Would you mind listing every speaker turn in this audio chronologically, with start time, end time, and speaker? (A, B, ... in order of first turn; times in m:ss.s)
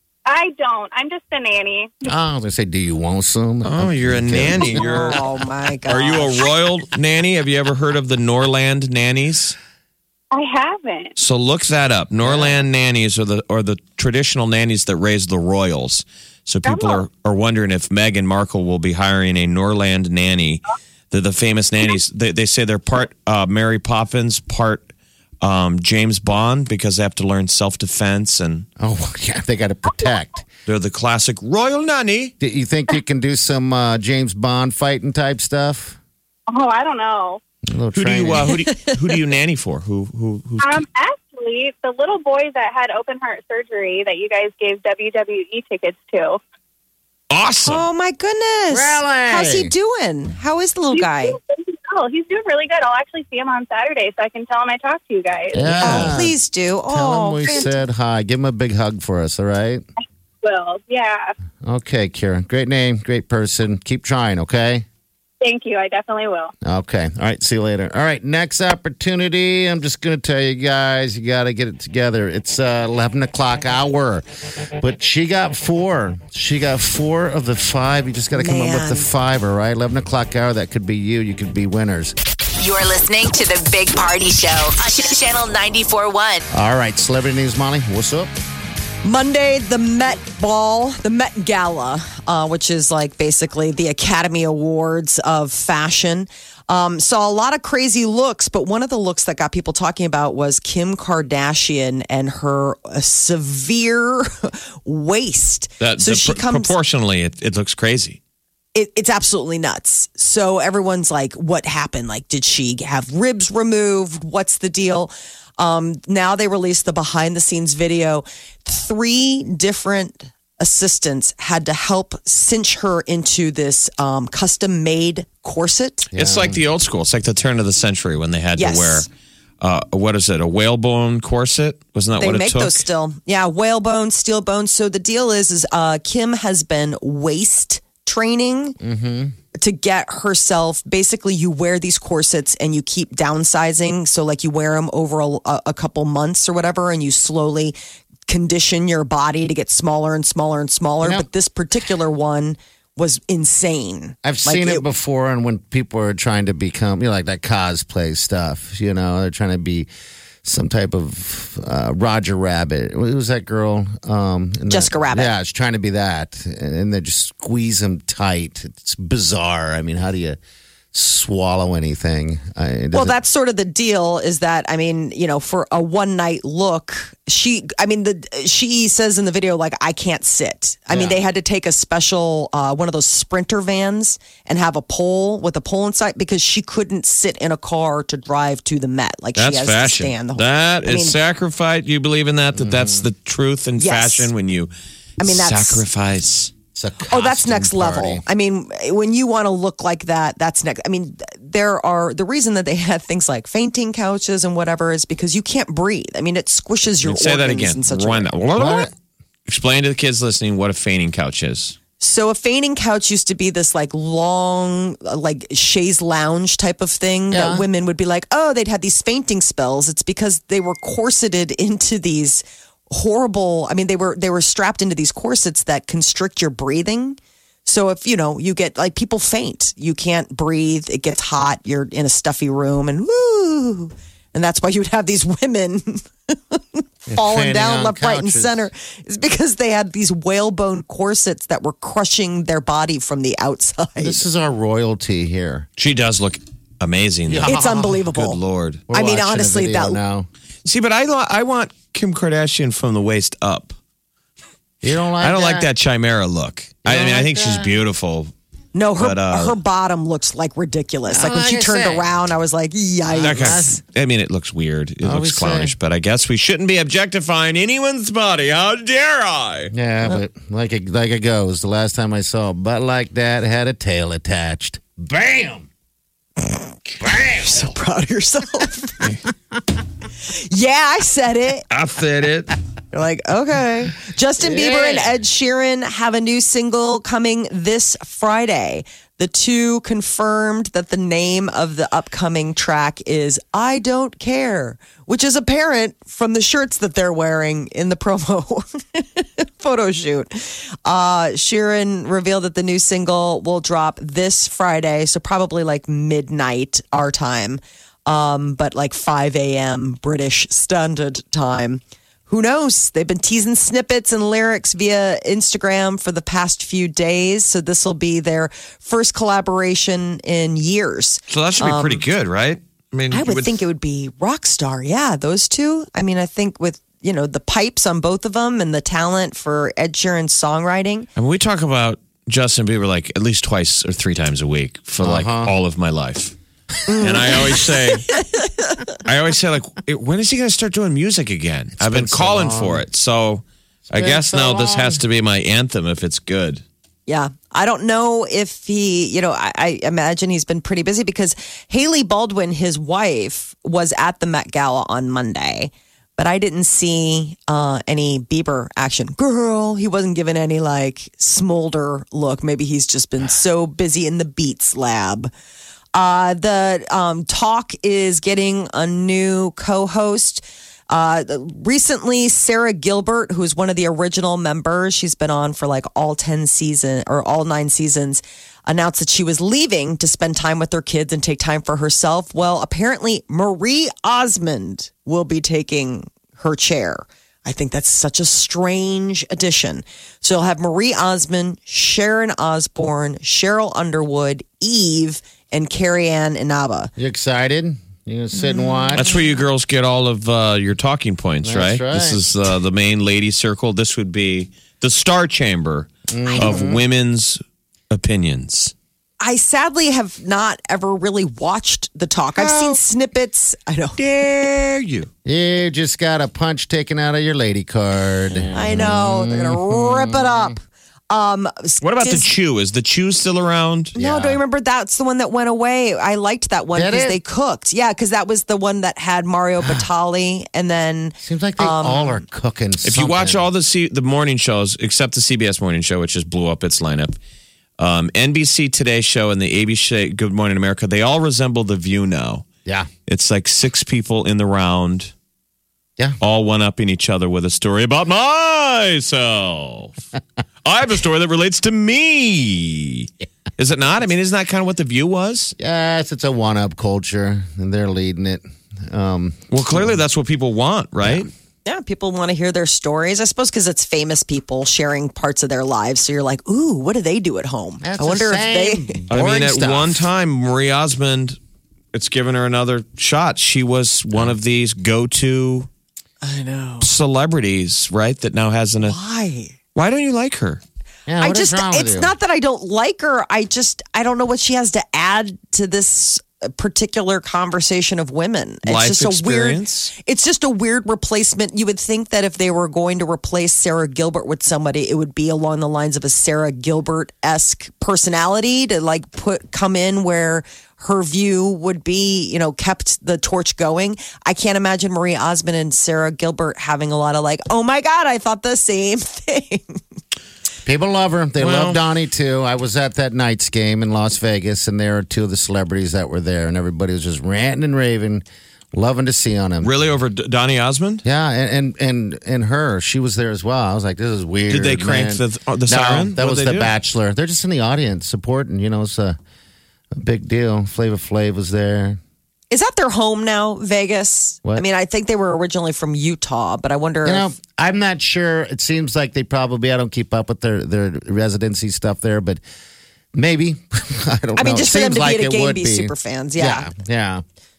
0:00.2-0:02.1 A
0:02.0-0:05.1 B
0:03.6-0:05.2 C
0:04.7-0:06.4 D
0:05.9-0:09.6 C
0:10.3-0:11.1 A
0:11.2-0:24.9 C
0:12.2-0:12.5 B
0:16.6-0:17.0 A
0:25.4-0:28.6 C
0:28.8-0:30.4 B
0:30.7-0:32.3 C
0:32.4-0:36.0 B
0:36.5-0:37.4 A
0:37.7-0:38.6 B
0:37.9-0:40.8 C
0:40.6-0:46.4 A
0:47.3-0:47.8 C
0:47.6-0:51.4 D
0:48.7-0:49.7 B
0:50.9-0:55.8 A
0:55.5-0:56.4 B
0:55.8-0:57.7 D
0:55.8-0:56.0 C
0:56.9-0:59.8 B
1:00.4-1:01.3 A
1:01.6-1:04.8 B
1:05.4-1:06.5 A
1:06.6-1:14.2 B
1:14.8-1:22.1 B
1:18.3-1:19.1 D
1:22.6-1:26.4 E
1:26.5-1:28.3 B
1:29.0-1:46.7 D
1:45.8-1:48.2 C
1:48.7-2:06.1 D
2:06.1-2:06.6 B
2:06.1-2:09.1 C
2:08.6-2:09.1 D
2:09.6-2:12.8 C
2:12.2-2:18.8 D
2:18.8-2:19.3 B
2:19.5-2:27.8 D
2:28.3-2:34.8 D
2:34.2-2:39.9 B
2:40.4-2:50.4 B
2:44.7-2:45.3 D
2:50.9-2:53.2 B
2:52.9-3:11.2 D
3:00.9-3:01.2 B
3:09.4-3:14.7 C
3:12.5-3:13.1 B
3:13.8-3:14.3 D
3:15.2-3:15.8 D
3:15.2-3:16.5 C
3:16.7-3:18.2 B
3:17.1-3:28.3 D
3:27.0-3:28.9 C
3:28.5-3:28.9 B
3:29.5-3:31.8 C
3:32.0-4:04.2 D
3:37.3-3:37.6 B
3:57.1-3:58.7 B
4:04.0-4:05.7 B
4:05.8-4:07.6 C
4:07.3-4:08.0 B
4:07.4-4:08.4 D
4:08.1-4:08.8 C
4:08.9-4:10.3 B
4:08.9-4:10.0 D
4:10.6-4:13.7 C
4:14.8-4:15.7 B
4:15.2-4:18.3 C
4:16.8-4:17.8 B
4:18.7-4:23.8 D
4:19.0-4:19.6 C
4:21.1-4:22.1 B
4:23.1-4:23.8 B
4:23.2-4:29.7 C
4:25.0-4:25.7 B
4:29.7-4:35.7 B
4:37.0-4:37.7 B
4:37.4-4:39.1 D
4:40.3-4:41.7 D
4:41.7-4:42.5 C
4:42.9-5:22.0 D
4:44.4-4:45.1 B
5:21.3-5:23.6 C
5:23.1-5:31.1 D
5:31.2-5:36.3 C
5:35.0-5:35.5 B
5:36.9-5:38.2 D
5:37.0-5:38.2 C
5:39.0-5:46.6 C
5:41.8-5:42.8 B
5:43.9-5:45.0 B
5:47.1-6:05.3 D
6:05.9-6:36.9 D
6:37.0-6:39.2 B
6:38.9-6:47.4 C
6:41.4-6:42.2 B
6:46.1-6:46.8 B
6:46.2-6:46.6 D
6:47.9-6:48.7 C
6:49.2-6:54.0 D
6:52.4-6:52.8 C
6:54.0-6:55.1 C
6:55.2-7:00.5 B
6:58.5-7:00.6 D
7:01.1-7:02.3 D
7:01.8-7:03.9 C
7:03.9-7:12.2 D
7:04.0-7:04.4 B
7:06.7-7:07.2 B
7:11.2-7:13.4 B
7:12.8-7:17.2 C
7:17.8-7:22.5 C
7:23.1-7:25.1 C
7:26.2-7:29.9 C
7:30.6-7:35.5 C
7:35.6-7:39.9 B
7:39.5-7:41.3 C
7:41.6-7:49.0 D
7:47.8-7:50.0 B
7:49.1-7:51.4 C
7:51.9-7:55.7 C
7:56.2-7:56.9 D
7:56.8-7:59.0 C
7:58.8-7:59.5 D
7:59.7-8:00.6 C
8:01.1-8:02.1 B
8:01.2-8:29.8 D
8:08.6-8:09.9 C
8:30.6-8:39.7 B
8:31.4-8:31.8 C
8:39.6-8:41.0 C
8:41.0-8:49.2 B
8:44.5-8:46.7 C
8:49.9-8:52.0 B
8:52.5-8:57.3 D
8:57.0-9:02.4 B
9:03.1-9:07.2 B
9:04.4-9:06.7 D